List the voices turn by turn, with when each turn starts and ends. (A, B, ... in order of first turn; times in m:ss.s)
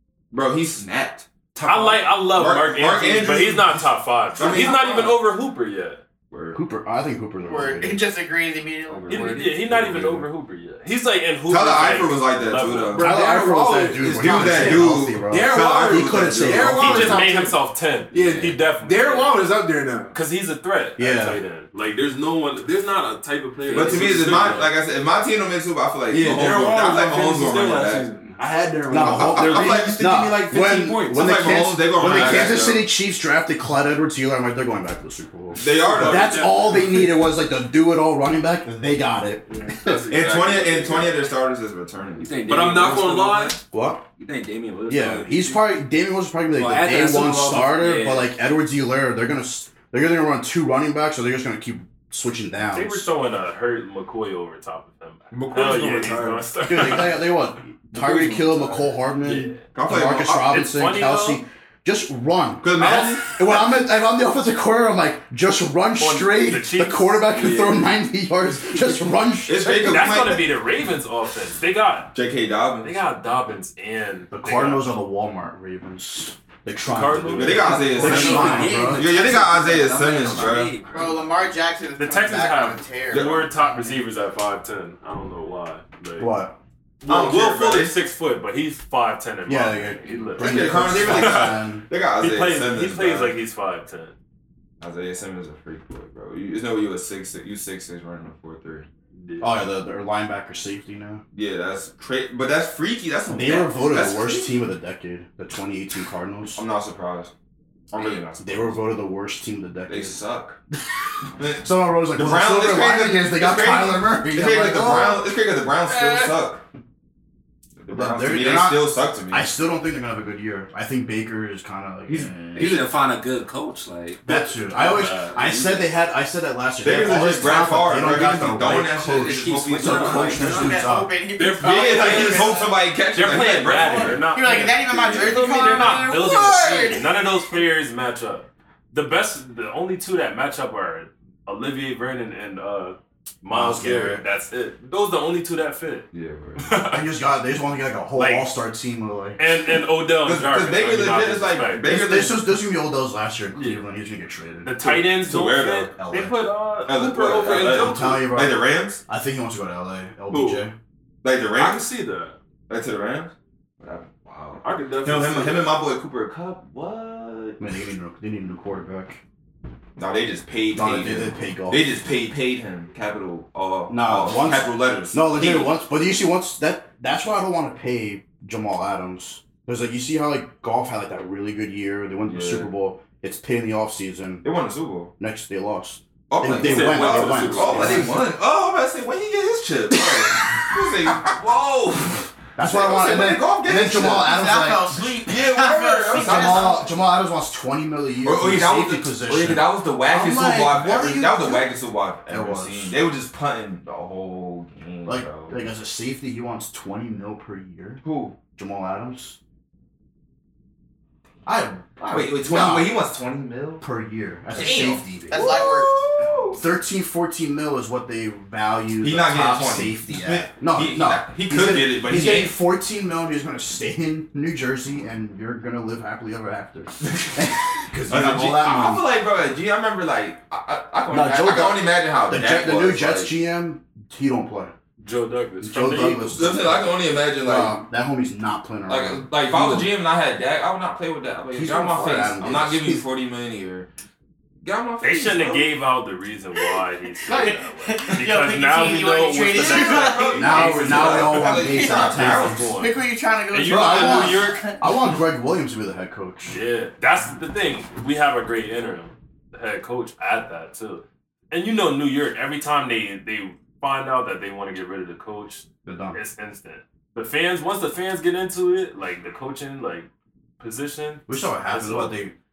0:00.3-0:01.3 A
0:01.5-0:02.0 B
0:01.6-0:06.0 C
0:02.3-0:03.8 A
0:04.4-0:05.0 A
0:04.4-0:05.1 D
0:06.3-0:06.6 A
0:06.5-0:08.0 E
0:07.4-0:09.5 D
0:08.9-0:10.2 F
0:09.1-0:13.1 C
0:11.5-0:13.1 A
0:12.9-0:17.2 E
0:12.9-0:17.6 B
0:14.0-0:16.8 A
0:16.7-0:19.4 C
0:18.1-0:20.2 B
0:20.1-0:24.7 C
0:21.0-0:21.4 E
0:23.6-0:24.5 F
0:23.7-0:28.1 A
0:26.1-0:31.4 B
0:28.9-0:40.0 E
0:29.0-0:30.0 A
0:31.1-0:32.9 A
0:32.0-0:32.5 B
0:35.5-0:36.7 A
0:36.1-0:36.7 C
0:39.8-0:41.1 C
0:40.1-0:42.4 A
0:42.2-0:43.6 F
0:42.4-0:43.6 C
0:43.7-0:44.0 E
0:44.2-0:45.7 F
0:44.9-0:53.1 E
0:46.5-0:48.3 F
0:52.7-0:57.3 C
0:55.3-0:56.6 B
0:56.6-1:10.1 E
0:59.2-0:59.6 C
0:59.7-1:00.6 A
1:00.4-1:01.4 C
1:02.6-1:03.4 A
1:06.0-1:07.8 C
1:09.4-1:10.4 A
1:09.7-1:12.1 C
1:12.1-1:13.0 A
1:12.8-1:14.9 C
1:14.3-1:19.1 E
1:16.8-1:18.6 C
1:17.3-1:20.7 A
1:17.9-1:21.3 F
1:20.9-1:23.9 D
1:22.0-1:26.3 C
1:23.1-1:23.4 A
1:26.2-1:26.6 E
1:27.0-1:31.6 C
1:27.0-1:28.0 A
1:29.5-1:31.8 E
1:30.4-1:33.4 A
1:32.2-1:34.1 C
1:34.8-1:38.9 A
1:39.1-1:39.7 C
1:39.4-1:41.2 E
1:41.3-1:44.5 A
1:43.3-1:46.6 E
1:46.5-1:47.3 A
1:47.9-1:48.8 A
1:48.4-1:50.2 E
1:49.9-1:50.6 A
1:51.4-1:56.6 A
1:51.6-1:55.2 E
1:55.9-1:56.3 C
1:57.8-1:59.5 A
1:57.9-2:02.7 E
2:02.1-2:02.9 A
2:02.5-2:05.9 F
2:04.2-2:11.1 E
2:04.3-2:05.4 C
2:06.8-2:10.6 A
2:09.0-2:10.8 F
2:10.3-2:12.8 D
2:11.4-2:12.6 C
2:11.5-2:14.2 A
2:13.1-2:27.0 C
2:14.0-2:17.1 D
2:14.9-2:15.6 F
2:23.5-2:24.2 E
2:26.1-2:26.8 A
2:26.9-2:29.5 E
2:28.2-2:28.5 C
2:29.4-2:31.9 C
2:30.2-2:32.4 A
2:31.8-2:35.1 E
2:33.5-2:33.8 C
2:34.6-2:38.3 C
2:35.1-2:35.9 A
2:36.0-2:36.4 E
2:36.8-2:39.0 A
2:37.6-2:40.7 E
2:40.3-2:40.6 C
2:41.2-2:41.8 A
2:41.6-2:42.4 C
2:42.7-2:47.6 A
2:44.6-2:45.7 C
2:47.6-2:49.2 E
2:50.0-2:55.7 A
2:50.7-2:51.9 E
2:53.9-3:04.4 E
3:02.3-3:02.7 A
3:04.4-3:05.1 A
3:05.2-3:08.3 E
3:06.3-3:14.4 A
3:06.4-3:08.2 C
3:09.9-3:10.6 E
3:12.6-3:15.2 E
3:14.0-3:16.8 D
3:15.1-3:16.9 A
3:16.1-3:21.6 E
3:18.2-3:25.6 A
3:21.3-3:21.6 D
3:22.3-3:23.0 E
3:25.0-3:28.0 E
3:28.0-3:28.4 A
3:28.5-3:29.4 E
3:31.4-3:32.9 E
3:32.1-3:33.8 A
3:33.8-3:35.3 E
3:34.5-3:36.6 A
3:34.6-3:36.0 D
3:36.5-3:49.1 E
3:39.0-3:42.5 A
3:48.1-3:53.3 A
3:51.1-3:54.7 E
3:55.0-3:56.5 C
3:55.6-3:56.9 E
3:56.3-3:57.8 A
3:57.4-3:59.9 E
3:58.9-4:03.9 A
4:01.5-4:03.0 E
4:04.6-4:05.7 A
4:05.0-4:11.5 C
4:07.2-4:14.8 D
4:09.6-4:12.7 A
4:10.3-4:12.7 E
4:12.1-4:13.0 C
4:13.5-4:14.8 C
4:13.7-4:16.6 E
4:16.4-4:30.1 C
4:25.8-4:26.2 E
4:30.6-4:32.1 C
4:31.3-4:32.3 E